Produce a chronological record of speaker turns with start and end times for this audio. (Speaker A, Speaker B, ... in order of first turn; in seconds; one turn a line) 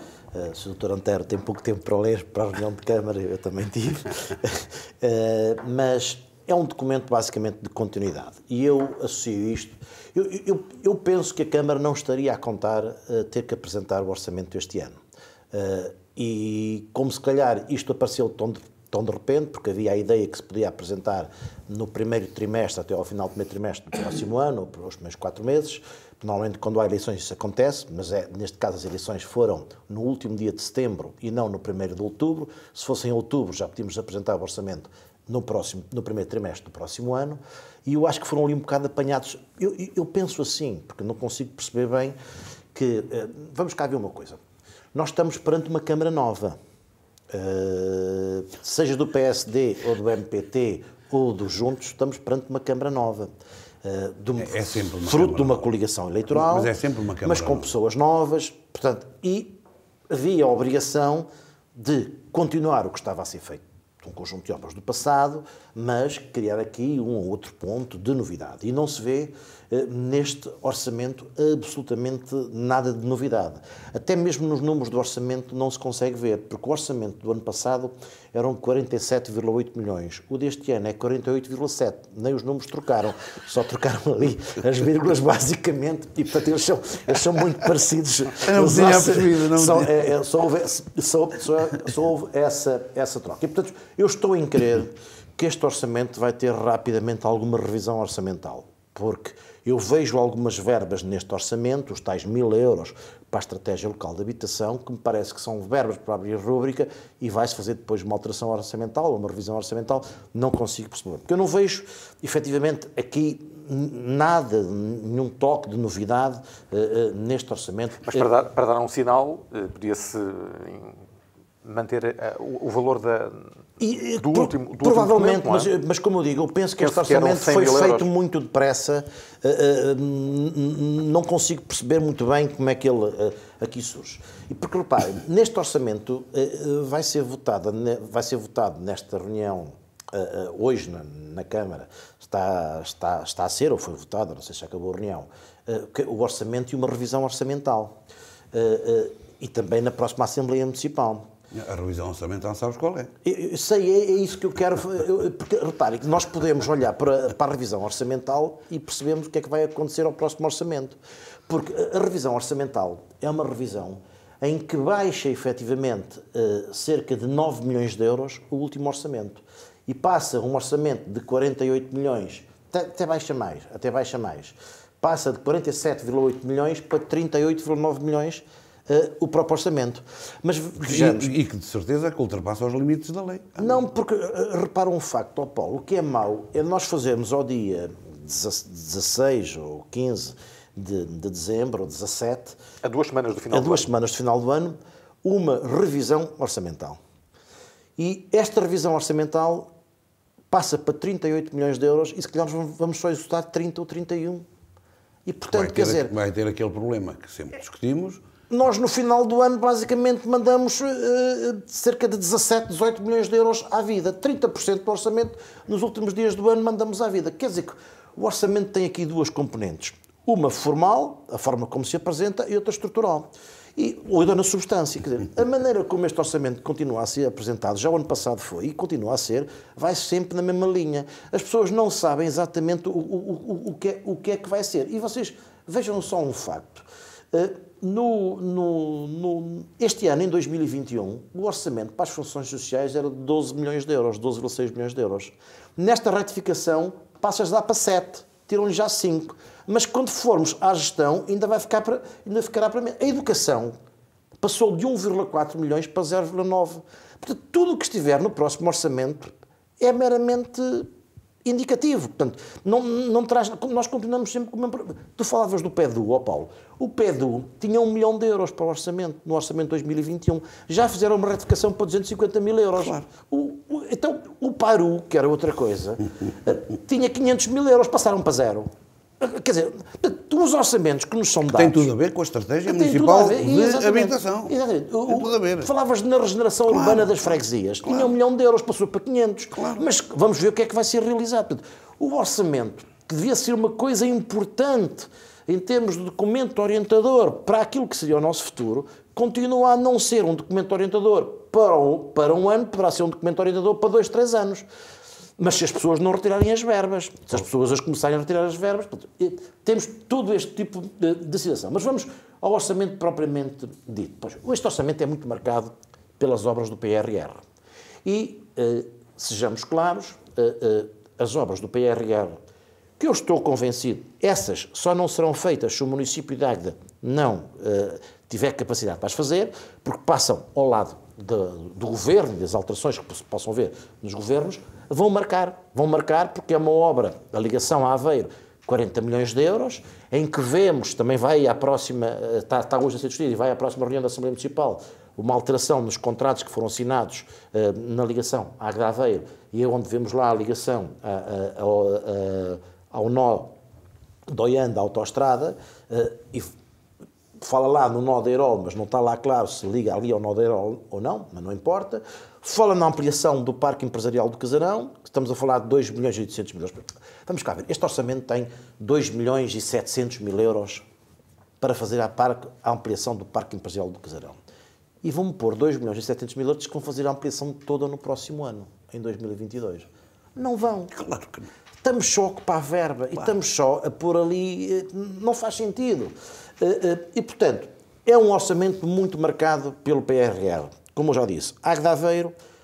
Speaker A: 0.3-15.0
Speaker A: 15.5-42.2
Speaker A: 42.7-44.4
Speaker A: 44.9-46.6
Speaker A: 47.3-53.3
Speaker A: 53.8-56.7
Speaker B: 54.4-55.7
Speaker B: 56.3-57.7
Speaker A: 57.2-59.6
Speaker A: 60.1-118.3
Speaker B: 88.4-90.0
Speaker C: 118.1-121.0
Speaker C: 121.6-123.5
Speaker A: 123.8-148.0
Speaker C: 124.2-125.7
Speaker C: 126.8-128.1
Speaker A: 148.5-151.2
Speaker B: 151.5-153.1
Speaker A: 153.2-181.3
Speaker B: 180.8-183.8
Speaker A: 183.6-192.6
Speaker C: 192.8-193.9
Speaker A: 193.5-197.0
Speaker A: 198.0-199.7
Speaker A: 200.5-204.5
Speaker A: 205.2-206.1
Speaker B: 205.5-208.2
Speaker A: 208.5-253.8
Speaker A: 254.4-260.9
Speaker A: 261.4-281.9
Speaker B: 272.8-273.1
Speaker B: 281.5-284.5
Speaker A: 282.6-304.6
Speaker B: 285.1-285.7
Speaker B: 286.7-287.2
Speaker B: 287.8-288.1
Speaker B: 289.5-289.9
Speaker A: 305.4-317.4
Speaker A: 318.1-322.4
Speaker A: 323.0-353.6
Speaker A: 354.3-356.5
Speaker A: 357.4-370.9
Speaker A: 371.6-374.4
Speaker A: 375.0-381.0
Speaker B: 380.9-381.5
Speaker A: 381.8-392.3